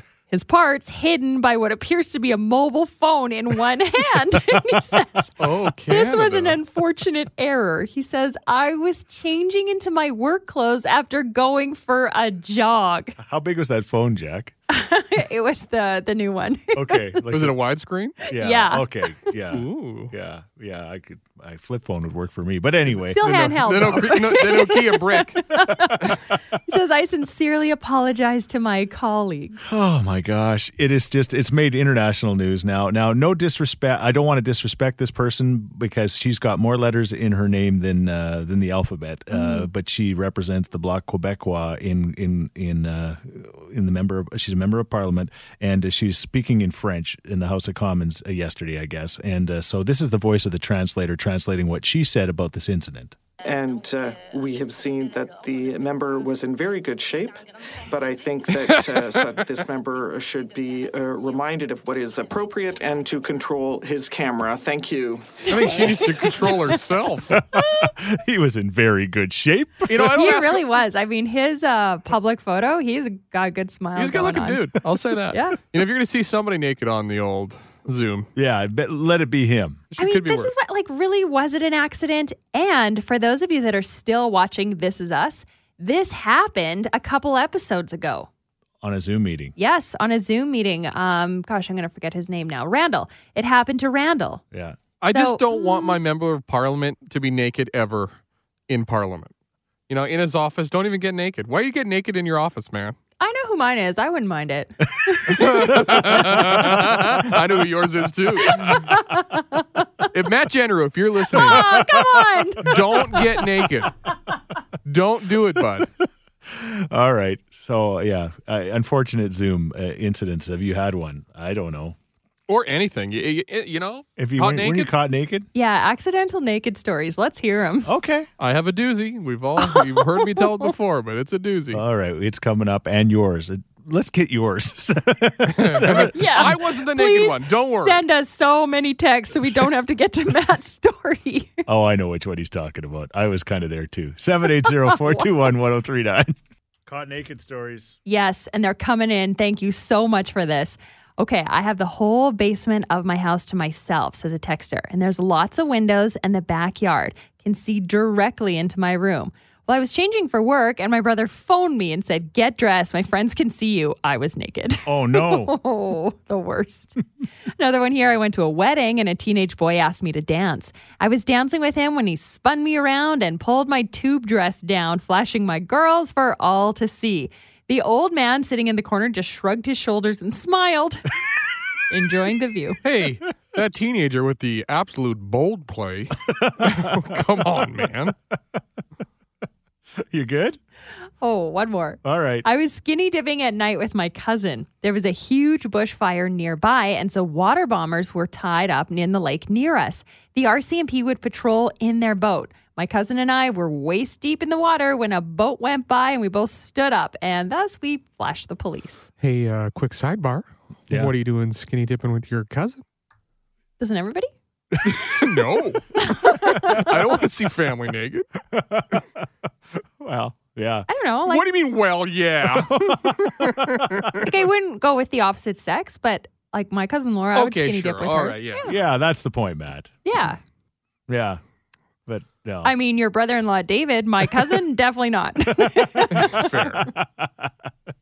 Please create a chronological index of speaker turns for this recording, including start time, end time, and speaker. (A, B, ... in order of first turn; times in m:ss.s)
0:00.3-0:13.2 A
0:05.4-0:06.6 B
0:13.2-0:14.5 C
0:14.7-0:17.3 A
0:16.7-0:17.6 C
0:17.3-0:18.2 B
0:18.3-0:19.3 A
0:18.3-0:24.2 C
0:19.5-0:20.1 B
0:23.0-0:26.2 A
0:23.2-0:25.5 B
0:25.7-0:26.0 C
0:26.7-0:29.7 A
0:29.7-0:53.2 C
0:39.3-0:39.7 A
0:53.4-1:05.9 D
0:58.6-0:59.4 B
1:05.5-1:07.4 B
1:07.3-1:10.0 C
1:09.9-1:10.8 B
1:09.9-1:14.7 A
1:14.0-1:18.3 B
1:15.3-1:15.6 A
1:18.4-1:19.8 C
1:19.9-1:20.5 B
1:20.0-1:28.3 A
1:28.8-1:29.5 C
1:29.6-1:34.4 A
1:34.5-1:34.8 C
1:35.0-1:38.2 B
1:35.1-1:36.0 A
1:38.7-1:39.3 B
1:39.9-1:43.0 B
1:43.2-1:46.0 A
1:45.2-1:47.1 C
1:45.3-1:48.9 B
1:48.6-1:50.1 A
1:50.1-1:51.8 B
1:51.3-1:53.2 A
1:51.4-1:53.5 C
1:52.6-1:54.0 B
1:54.8-1:55.9 B
1:56.4-2:02.0 C
2:02.5-2:04.9 B
2:04.2-2:05.5 C
2:05.5-2:07.9 A
2:07.8-2:08.3 C
2:08.4-2:11.8 B
2:09.6-2:10.7 A
2:11.7-2:16.6 C
2:15.5-2:18.0 B
2:16.1-2:21.6 A
2:21.7-2:28.0 C
2:24.7-2:25.2 A
2:28.1-2:47.0 A
2:44.9-2:45.6 C
2:47.6-3:01.1 A
3:01.9-3:02.8 A
3:02.8-3:08.2 B
3:06.3-3:07.9 C
3:10.0-3:10.6 C
3:11.2-3:29.1 A
3:12.0-3:12.5 C
3:29.2-3:32.8 B
3:30.9-3:31.1 C
3:33.8-3:34.3 A
3:34.8-3:38.3 B
3:36.0-3:36.9 A
3:38.5-3:39.2 C
3:40.0-3:40.9 C
3:40.9-3:41.4 A
3:41.3-3:44.2 B
3:42.4-3:44.3 C
3:44.2-3:48.7 A
3:47.3-3:48.7 B
3:48.6-3:50.0 C
3:50.0-3:50.4 A
3:51.1-3:51.4 C
3:52.1-3:52.7 C
3:52.6-3:56.4 A
3:55.5-3:57.7 C
3:56.1-3:56.9 B